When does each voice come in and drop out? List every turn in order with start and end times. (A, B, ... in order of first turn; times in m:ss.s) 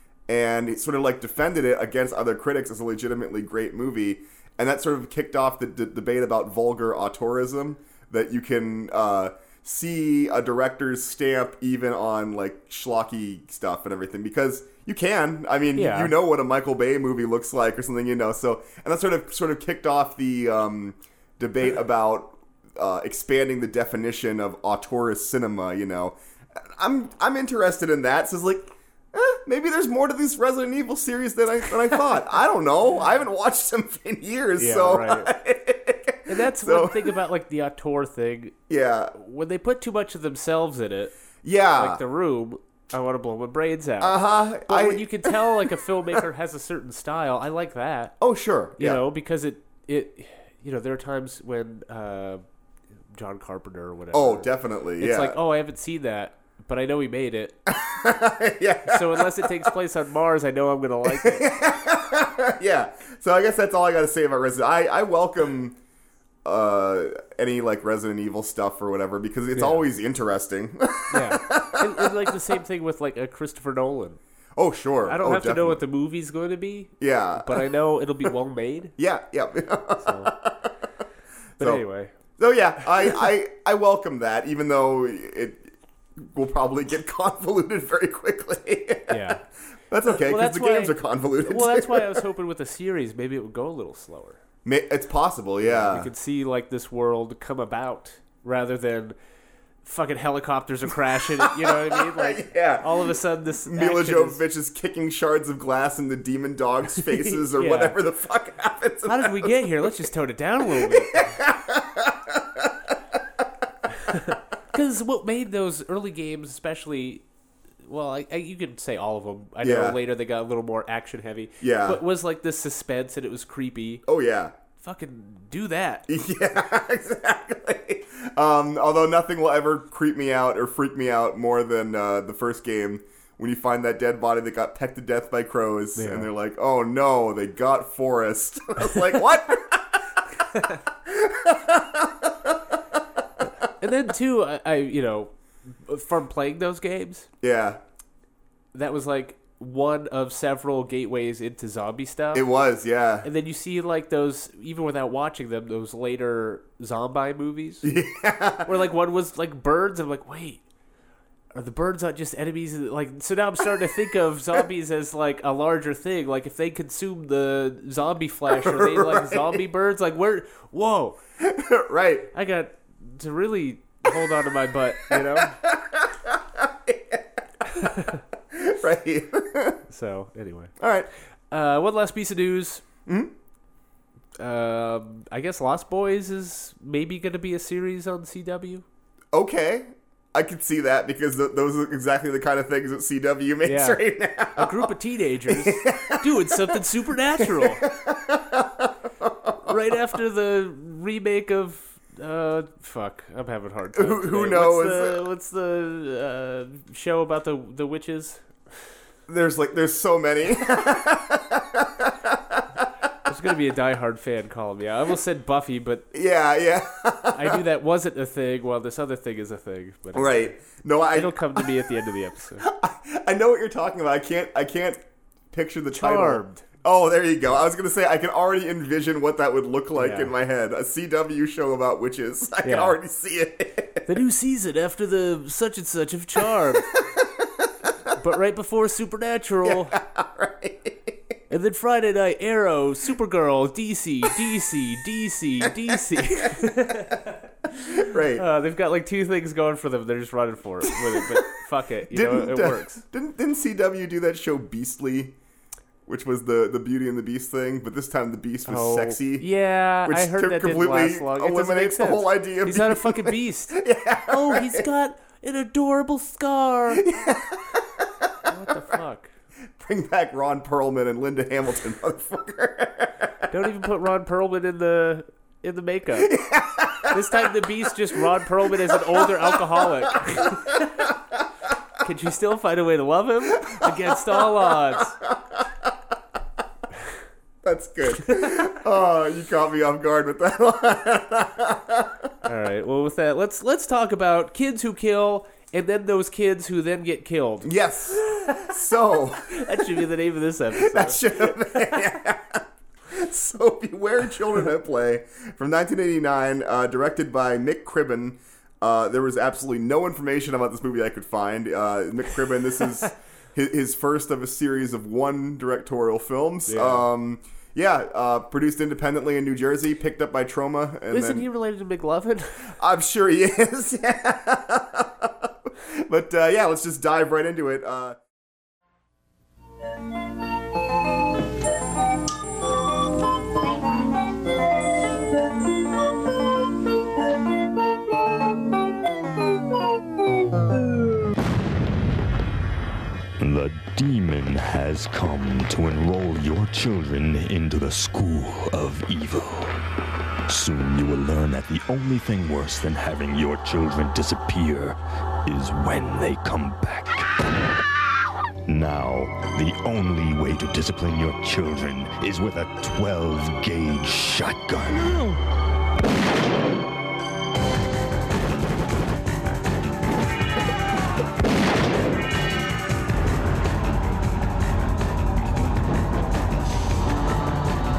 0:00.3-0:37.2 A
0:15.7-0:16.1 B
0:34.6-0:35.3 B
0:36.3-0:38.5 B
0:38.7-0:39.1 A
0:39.1-0:41.2 B
0:41.4-0:42.0 A
0:41.7-0:48.1 B
0:44.0-0:45.7 A
0:48.2-0:49.0 A
0:48.8-0:52.4 B
0:53.1-0:57.6 B
0:54.1-0:55.4 A
0:57.7-0:59.7 A
0:58.8-1:01.5 B
1:01.1-1:05.8 A
1:06.4-1:12.4 A
1:09.5-1:09.8 B
1:11.1-1:14.2 B
1:14.6-1:15.8 A
1:15.0-1:18.9 B
1:17.0-1:17.7 A
1:19.0-1:20.7 A
1:20.0-1:20.3 B
1:21.6-1:21.8 A
1:21.6-1:22.1 B
1:22.4-1:32.2 A
1:29.1-1:29.4 B
1:30.0-1:34.4 B
1:34.6-1:36.1 A
1:35.6-1:39.2 B
1:39.8-1:44.4 B
1:41.4-1:43.1 A
1:43.6-1:49.9 A
1:47.1-1:48.0 B
1:49.0-1:51.4 B
1:50.7-1:52.9 A
1:54.0-1:57.2 B
1:57.8-2:04.0 B
1:59.6-2:00.0 A
2:01.6-2:02.0 A
2:04.0-2:04.5 A
2:04.8-2:06.0 B
2:06.1-2:20.0 A
2:16.0-2:16.3 B
2:21.0-2:22.8 A
2:23.8-2:27.3 B
2:27.4-2:27.8 A
2:28.7-2:32.4 B
2:32.3-2:33.3 A
2:33.2-2:37.9 B
2:37.8-2:38.7 A
2:38.6-2:40.6 B
2:41.5-2:51.2 B
2:48.5-2:49.6 A
2:51.4-2:52.3 A
2:52.3-2:55.6 B
2:55.1-2:57.2 A
2:57.8-2:58.2 B
2:58.5-2:59.8 A
2:59.9-3:00.7 B
3:00.8-3:01.1 A
3:01.5-3:02.8 B
3:03.0-3:03.3 A
3:04.4-3:08.8 B
3:09.3-3:14.9 A
3:13.6-3:14.0 B
3:14.5-3:17.8 B
3:15.5-3:16.8 A
3:17.4-3:19.7 A
3:19.6-3:28.5 B
3:23.9-3:25.2 A
3:29.3-3:32.9 A
3:33.2-3:36.1 B
3:36.1-3:37.6 A
3:37.3-3:40.6 B
3:40.1-3:41.9 A
3:41.1-3:42.7 B
3:42.6-3:54.1 A
3:45.9-3:46.6 B
3:49.9-3:50.3 B
3:52.6-3:53.0 B
3:54.1-3:56.9 B
3:56.8-3:57.7 A
3:58.2-4:00.0 B
3:59.6-4:01.2 A
4:01.5-4:07.4 B
4:07.9-4:08.4 A
4:08.3-4:13.0 B
4:10.9-4:11.4 A
4:12.1-4:15.3 A
4:16.0-4:19.5 A
4:18.6-4:27.2 B
4:20.0-4:24.9 A
4:26.9-4:28.3 A
4:28.4-4:29.3 B
4:29.8-4:33.3 A
4:33.5-4:36.4 B
4:36.2-4:37.5 A
4:37.1-4:41.0 B
4:38.2-4:41.2 A
4:42.0-4:45.2 B
4:43.6-4:45.9 A
4:47.6-4:52.3 A
4:48.2-4:48.6 B
4:52.4-4:58.7 B
4:57.6-5:00.0 A
4:59.5-5:01.6 B
5:00.7-5:21.5 A
5:16.7-5:17.1 B
5:21.1-5:22.7 B
5:22.8-5:28.2 A
5:43.4-5:49.8 C
5:50.5-5:57.3 C
5:58.7-6:05.4 C